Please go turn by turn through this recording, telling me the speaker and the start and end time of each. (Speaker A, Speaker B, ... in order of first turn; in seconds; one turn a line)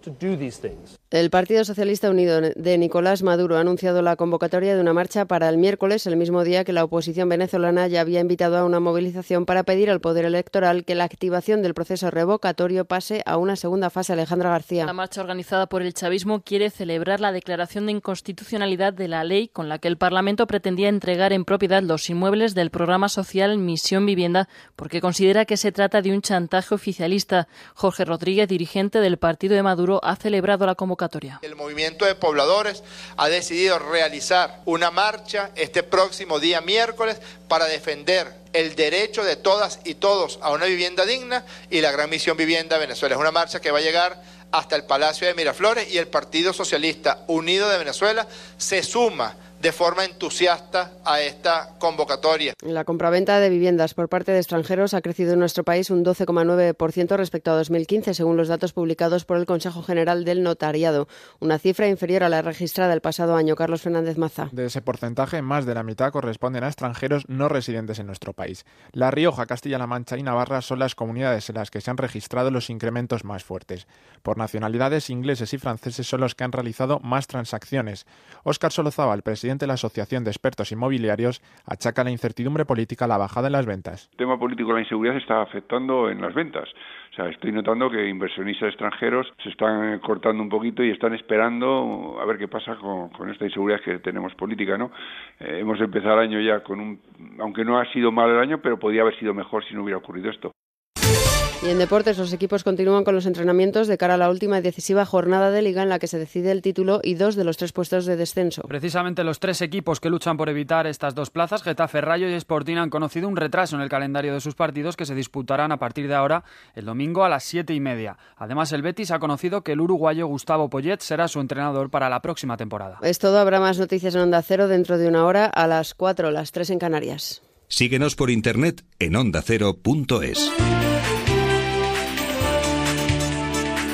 Speaker A: 1.1-14.9
Speaker B: 14.9-31.4
Speaker C: 31.4-52.5
Speaker A: 52.6-64.5
Speaker D: 64.5-84.1
Speaker E: 84.2-94.9
Speaker E: 95.4-100.5
Speaker A: 101.6-108.7
Speaker F: 108.7-123.0
Speaker A: 123.0-127.4
Speaker G: 127.7-130.5